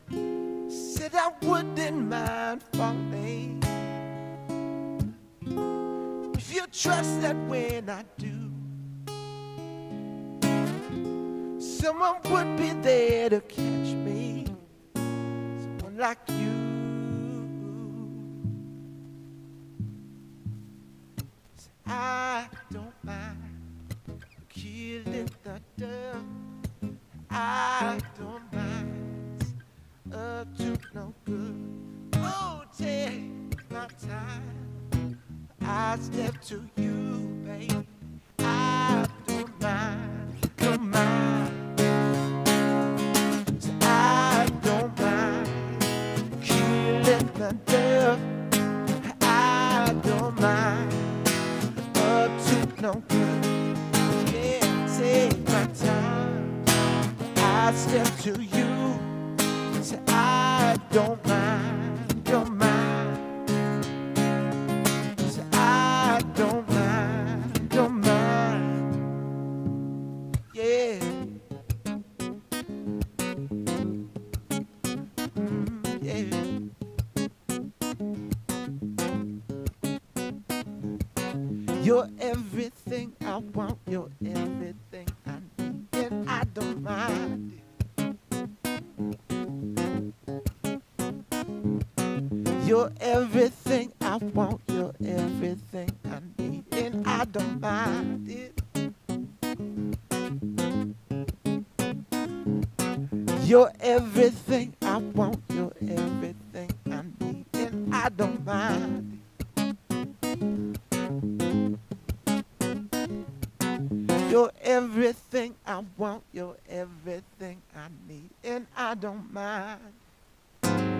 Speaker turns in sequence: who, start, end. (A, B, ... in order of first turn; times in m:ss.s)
0:00.7-0:03.9 A
0:06.3-0:08.7 A
0:11.6-0:14.6 A
0:15.6-0:18.4 A
0:21.6-0:23.6 A
0:24.4-0:26.3 A
0:27.3-0:29.5 A
0:30.1-0:34.8 A
0:35.6-0:37.8 A
0:38.4-0:41.8 A
0:43.6-0:48.4 A
0:48.9-0:51.3 A
0:51.9-0:56.6 A
0:57.4-0:59.1 A
0:59.7-1:03.3 A
1:05.2-1:08.9 A
1:10.5-1:11.2 A
1:15.3-1:16.6 A
1:21.7-1:27.6 A
1:32.6-1:38.6 A
1:43.3-1:49.2 A
1:54.2-2:00.0 A